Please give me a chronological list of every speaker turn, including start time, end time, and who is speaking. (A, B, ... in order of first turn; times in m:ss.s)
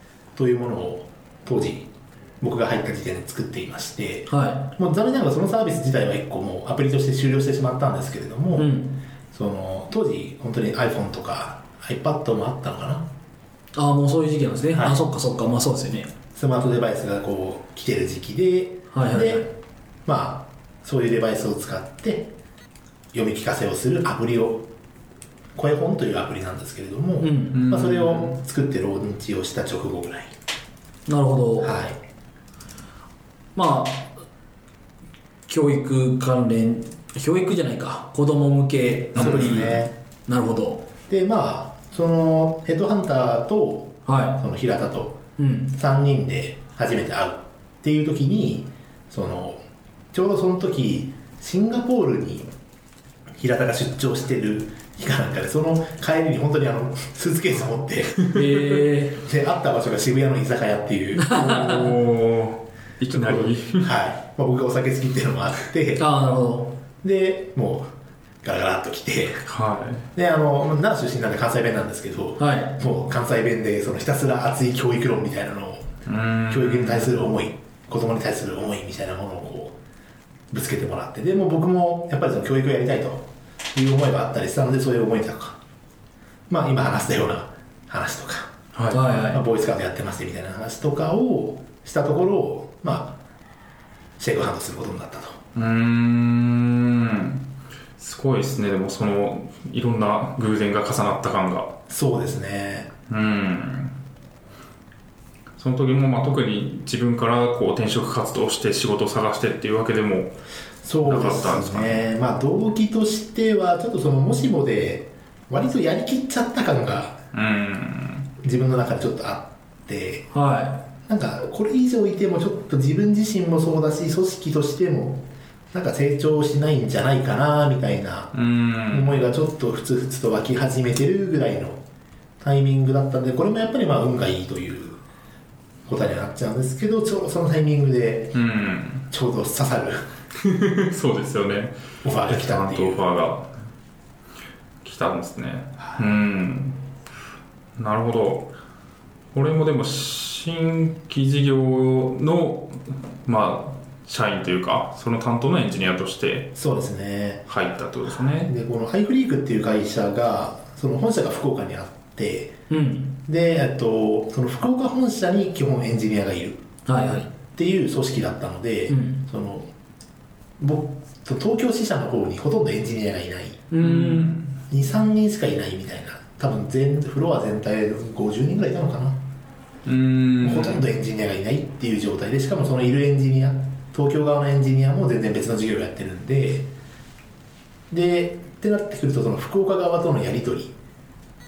0:00.4-0:01.9 A
0:02.4-0:08.8 A
0:04.3-0:04.7 B
0:08.6-0:09.0 B
0:09.3-0:13.1 A
0:13.7-0:16.1 B
0:14.7-0:15.0 A
0:16.3-0:19.5 A
0:18.9-0:19.5 B
0:20.1-0:22.3 A
0:23.1-0:24.7 A
0:25.6-0:30.3 A
0:27.2-0:27.6 B
0:27.5-0:28.4 C
0:31.1-0:31.8 B
0:31.6-0:32.0 A
0:33.6-0:34.2 B
0:35.5-0:40.8 B
0:39.2-0:39.9 A
0:39.2-0:39.8 C
0:41.1-0:45.2 A
0:44.1-0:44.4 B
0:45.4-0:45.8 B
0:45.7-0:49.6 A
0:50.1-0:52.5 A
0:53.4-0:58.2 A
0:58.3-0:59.2 B
0:59.2-1:01.5 A
1:01.2-1:01.9 B
1:01.3-1:03.9 C
1:03.1-1:06.0 A
1:06.0-1:06.8 B
1:07.0-1:07.9 A
1:08.4-1:09.4 A
1:09.4-1:10.1 C
1:10.2-1:15.9 A
1:12.4-1:12.8 B
1:16.1-1:17.2 C
1:16.5-1:19.8 A
1:20.5-1:25.6 A
1:26.5-1:28.5 A
1:28.8-1:29.1 C
1:28.9-1:29.4 B
1:29.0-1:33.2 A
1:34.2-1:35.4 A
1:35.6-1:37.4 C
1:38.0-1:41.7 C
1:41.9-1:42.9 A
1:43.1-1:44.0 C
1:45.6-1:50.4 C
1:50.8-1:57.2 A
1:51.0-1:52.0 C
1:57.3-1:58.3 C
1:58.4-2:00.3 A
2:00.3-2:00.8 B
2:01.1-2:08.3 A
2:08.3-2:09.2 C
2:08.9-2:11.8 A
2:12.4-2:15.0 A
2:15.9-2:18.4 A
2:18.3-2:19.1 C
2:19.1-2:20.0 A
2:20.4-2:23.5 C
2:22.0-2:23.0 A
2:24.8-2:26.8 C
2:25.8-2:26.0 A
2:27.8-2:28.5 C
2:29.3-2:36.5 C
2:36.6-2:37.5 A
2:37.5-2:38.5 C
2:38.1-2:42.5 A
2:42.7-2:43.2 B
2:43.3-2:46.6 A
2:46.9-2:47.3 B
2:47.3-2:49.7 A
2:48.9-2:49.2 B
2:50.6-2:53.6 A
2:53.7-2:54.4 B
2:53.8-2:54.5 C
2:54.7-2:59.2 A
2:59.8-3:00.9 C
3:00.4-3:06.7 A
3:07.9-3:10.7 A